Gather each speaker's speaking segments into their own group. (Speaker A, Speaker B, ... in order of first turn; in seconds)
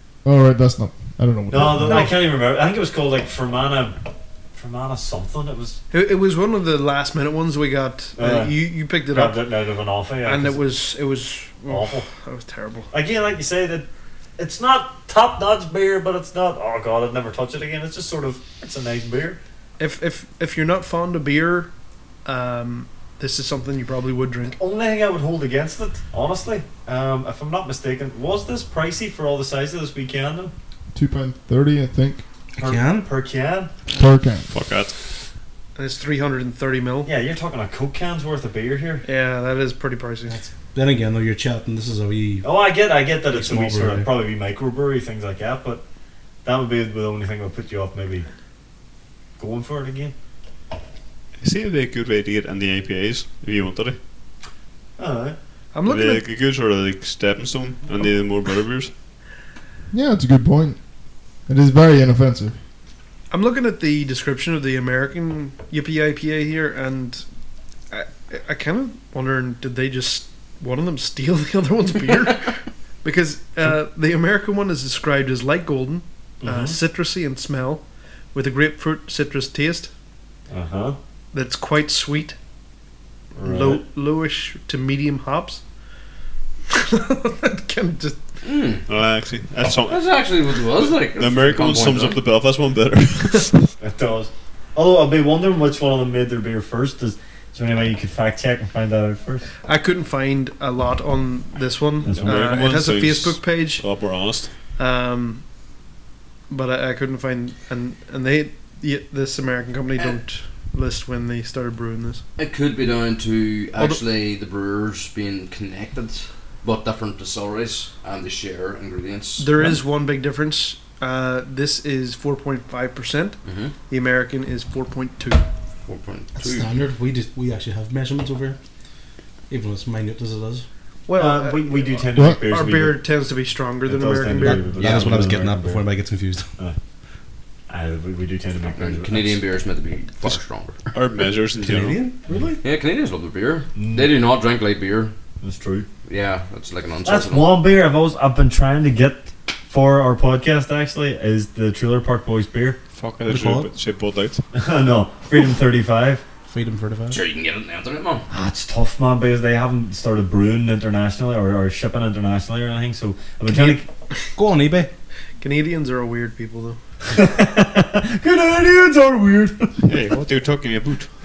Speaker A: 0.2-2.1, 30.9-32.2, 33.9-34.5, 59.9-62.6, 132.1-132.4
Speaker B: 1.5-4.0, 4.5-5.8, 8.2-10.6, 11.7-12.1, 12.9-19.4, 24.6-30.5, 32.6-33.7, 37.0-39.0, 42.4-45.8, 46.4-48.3, 49.4-50.1, 55.0-55.4, 76.4-76.8, 80.5-81.0, 83.4-83.8, 93.8-99.5, 102.0-102.5, 131.2-133.0, 133.8-135.9, 137.7-139.4, 143.7-144.2, 145.4-145.9, 147.1-152.8, 154.6-156.2, 158.3-163.9, 167.1-169.8
Speaker C: 1.8-2.1, 5.9-9.4, 10.2-12.9, 19.8-21.7, 22.2-24.6, 35.8-37.1, 39.0-40.4, 55.7-56.2, 63.3-67.2, 67.9-77.8, 78.3-79.9, 81.3-82.3, 83.4-85.6, 86.7-88.2, 99.6-103.8, 104.8-105.4, 106.5-112.2, 119.4-123.4, 123.9-125.4, 131.1-134.6, 165.4-166.8
Speaker D: 32.5-33.0, 40.3-42.5, 43.3-44.1, 126.3-128.6, 129.5-130.6, 134.3-136.5, 141.6-142.6, 153.3-153.7, 156.5-157.2, 163.5-163.8, 164.3-164.9
Speaker E: 34.5-34.9, 51.4-54.0, 55.8-58.9, 88.9-90.1, 90.7-93.7, 102.1-104.5, 140.9-142.0, 152.9-154.4, 169.8-171.1
Speaker F: 88.4-88.8, 89.8-92.2, 112.4-119.7, 123.4-123.7, 125.9-126.7, 134.8-135.2, 138.8-140.8, 142.6-145.1, 146.1-147.6, 157.1-158.2